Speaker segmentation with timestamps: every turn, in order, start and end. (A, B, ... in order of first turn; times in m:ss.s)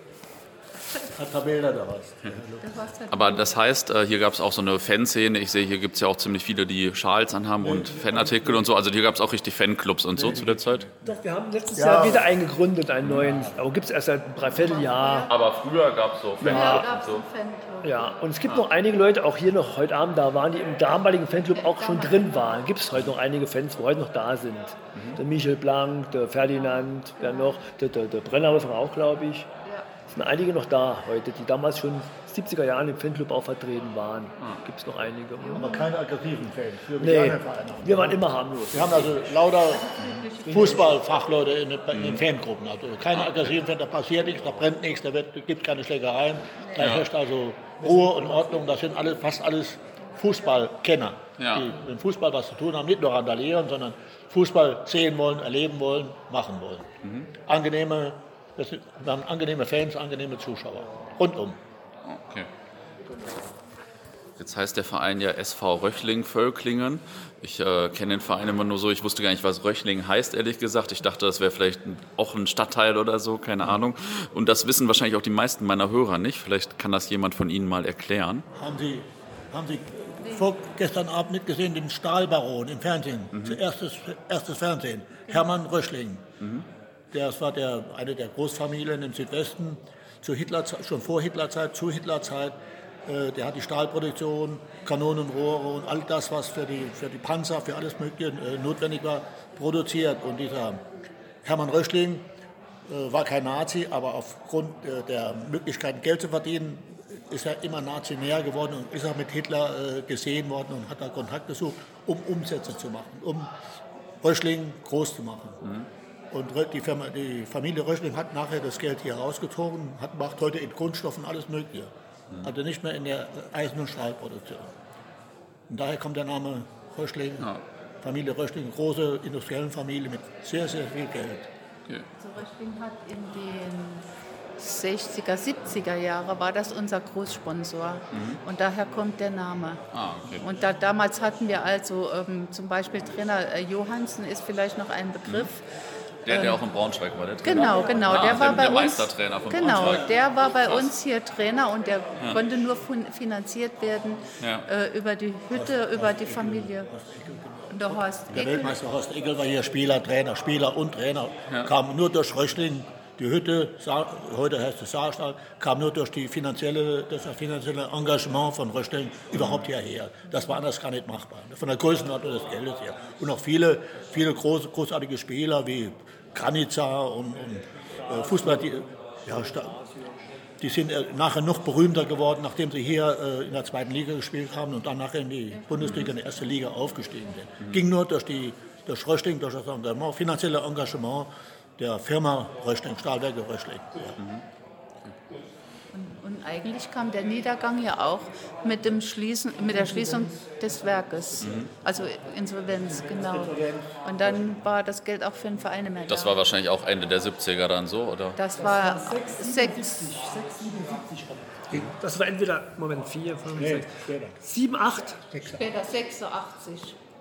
0:01.1-0:02.7 A
0:02.6-0:03.6 B
0:03.1-0:10.9 C
0:07.6-0:08.7 A
0:10.1-0:11.1 A
0:11.0-0:15.3 D
0:11.7-0:12.3 A
0:13.0-0:13.3 C
0:13.2-0:13.6 A
0:14.5-0:15.3 B
0:15.3-0:17.2 C
0:16.4-0:16.8 D
0:16.4-0:18.3 B
0:17.8-0:29.5 D
0:21.5-0:22.7 B
0:24.9-0:25.2 C
0:26.5-0:27.6 B
0:29.6-0:29.9 B
0:30.1-0:35.7 D
0:35.4-0:35.9 B
0:35.5-1:01.6 A
0:37.0-0:39.3 D
0:39.7-0:40.9 B
0:40.5-0:41.0 D
0:41.9-0:42.2 C
0:43.1-0:43.5 C
0:46.8-0:47.1 C
0:47.8-0:48.5 D
0:51.4-0:51.7 C
0:57.0-0:57.3 C
1:02.0-1:02.5 C
1:04.4-1:18.4 C
1:18.5-1:26.2 A
1:20.2-1:20.5 B
1:23.3-1:23.6 C
1:26.4-1:26.6 C
1:27.1-1:40.8 A
1:41.4-1:42.3 A
1:42.9-1:53.5 A
1:54.2-1:55.6 A
1:55.6-1:55.9 C
1:56.3-2:04.7 A
2:05.7-2:07.5 A
2:08.0-2:11.5 A
2:12.2-2:14.0 B
2:14.6-2:19.8 B
2:18.1-2:18.4 C
2:19.9-2:20.4 C
2:20.3-2:25.6 B
2:26.2-2:30.1 C
2:26.3-2:26.6 B
2:27.4-2:36.9 B
2:29.6-2:30.1 A
2:30.6-2:30.9 C
2:34.4-2:34.7 C
2:35.5-2:59.8 A
2:37.7-2:38.8 B
2:58.0-3:00.2 D
3:00.6-3:14.2 A
3:05.8-3:06.1 C
3:14.2-3:14.4 C
3:15.9-3:26.4 B
3:21.4-3:21.7 C
3:23.2-3:23.9 A
3:26.1-3:28.4 C
3:28.4-3:29.9 B
3:28.6-3:35.2 D
3:33.5-3:34.4 A
3:35.3-3:35.6 A
3:35.5-3:37.0 B